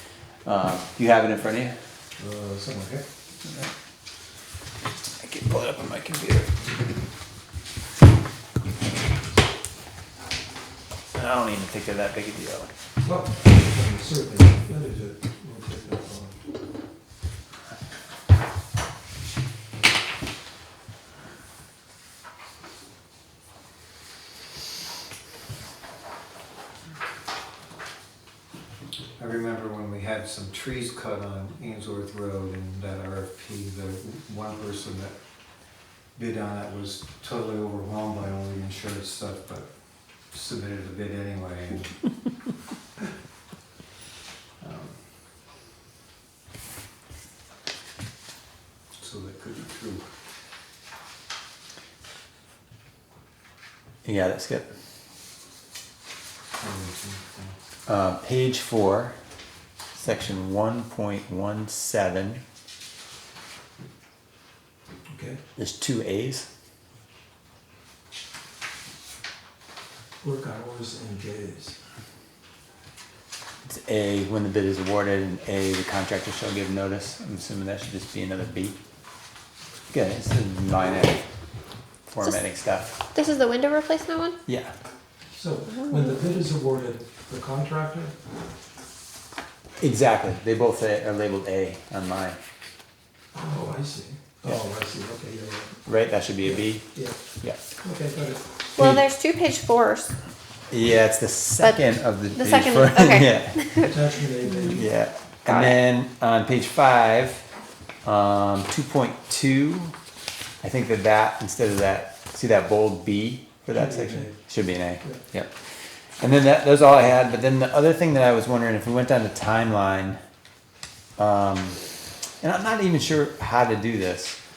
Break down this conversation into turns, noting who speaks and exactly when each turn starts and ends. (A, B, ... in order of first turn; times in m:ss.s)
0:00.4-0:01.8 A
0:02.2-0:03.0 B
0:03.4-0:03.7 A
0:05.2-0:06.5 A
0:11.1-0:12.7 A
0:13.0-0:16.4 B
0:29.2-0:35.2 C
0:36.2-0:41.9 C
0:44.6-0:44.9 C
0:49.0-0:50.0 C
0:54.0-0:54.7 A
0:56.6-0:57.6 C
0:57.9-0:59.2 A
1:00.0-1:02.4 A
1:05.1-1:05.4 B
1:05.6-1:06.5 A
1:10.2-1:11.8 B
1:13.6-1:18.8 A
1:19.9-1:21.2 A
1:22.1-1:23.0 A
1:23.1-1:24.4 D
1:24.5-1:24.7 A
1:25.3-1:28.1 B
1:25.8-1:26.0 D
1:29.8-1:32.4 A
1:33.4-1:35.8 B
1:35.9-1:36.9 A
1:36.4-1:37.2 B
1:37.4-1:37.7 A
1:37.8-1:38.6 B
1:38.8-1:40.1 D
1:40.7-1:43.6 A
1:42.4-1:44.0 D
1:43.8-1:44.8 B
1:44.7-1:47.5 A
1:45.5-1:45.8 D
1:48.0-1:49.9 A
1:50.6-2:00.2 A
1:53.7-1:54.4 B
2:01.2-2:01.8 A
2:02.4-2:04.4 A